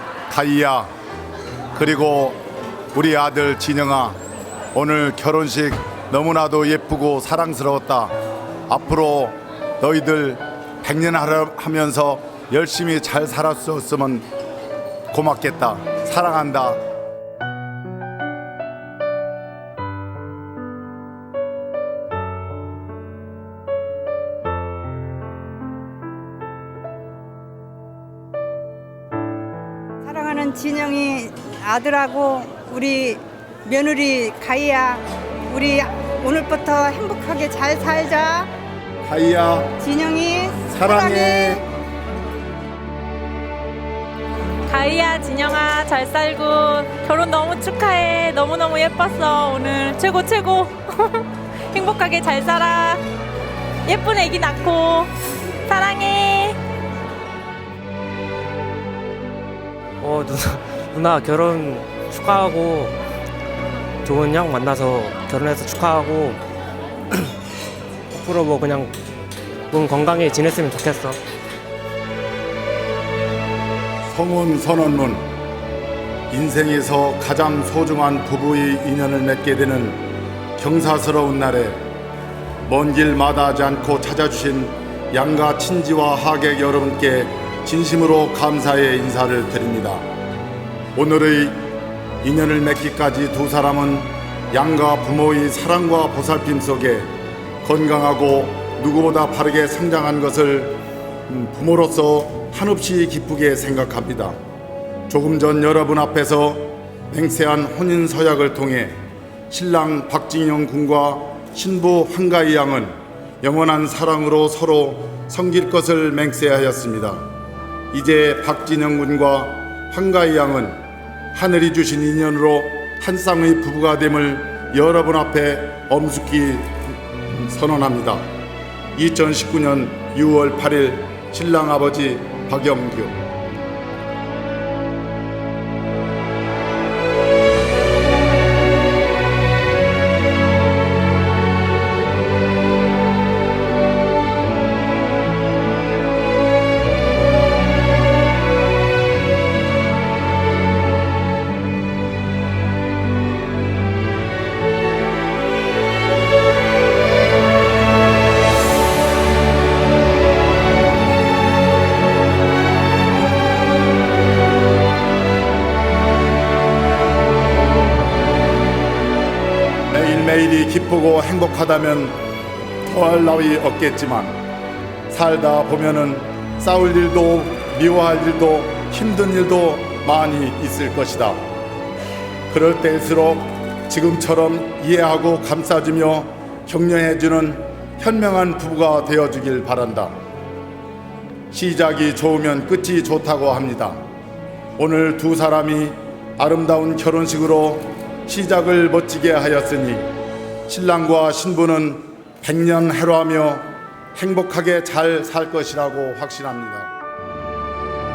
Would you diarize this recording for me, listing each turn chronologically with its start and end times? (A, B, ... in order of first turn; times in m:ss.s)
0:00.3-0:00.9 A
0:01.7-0:02.4 A
0:02.9-0:04.2 A
0:04.7-0:08.1 A
0:08.7-0:14.2 A
0:15.1-0:16.8 A
0:30.0-0:38.5 B
0:39.0-0:39.8 A
0:39.8-0:41.6 B
0:40.7-0:41.6 A
0:44.7-0:53.0 C
0:53.8-0:55.1 C
0:55.6-0:56.6 C
1:00.0-1:02.9 D
1:04.0-1:06.4 D
1:08.1-1:08.9 D
1:09.7-1:11.2 D
1:14.1-1:15.2 A
1:16.3-1:21.8 A
1:22.6-1:30.0 A
1:30.9-1:31.6 A
1:32.2-1:37.1 A
1:37.6-1:44.4 A
1:45.1-1:49.0 A
1:49.5-1:57.2 A
1:57.9-2:00.8 A
2:01.3-2:08.2 A
2:09.0-2:13.2 A
2:49.9-2:52.2 A
2:52.8-2:54.3 A
2:55.1-3:01.4 A
3:02.5-3:10.1 A
3:11.5-3:14.0 A
3:14.8-3:20.0 A
3:20.7-3:26.9 A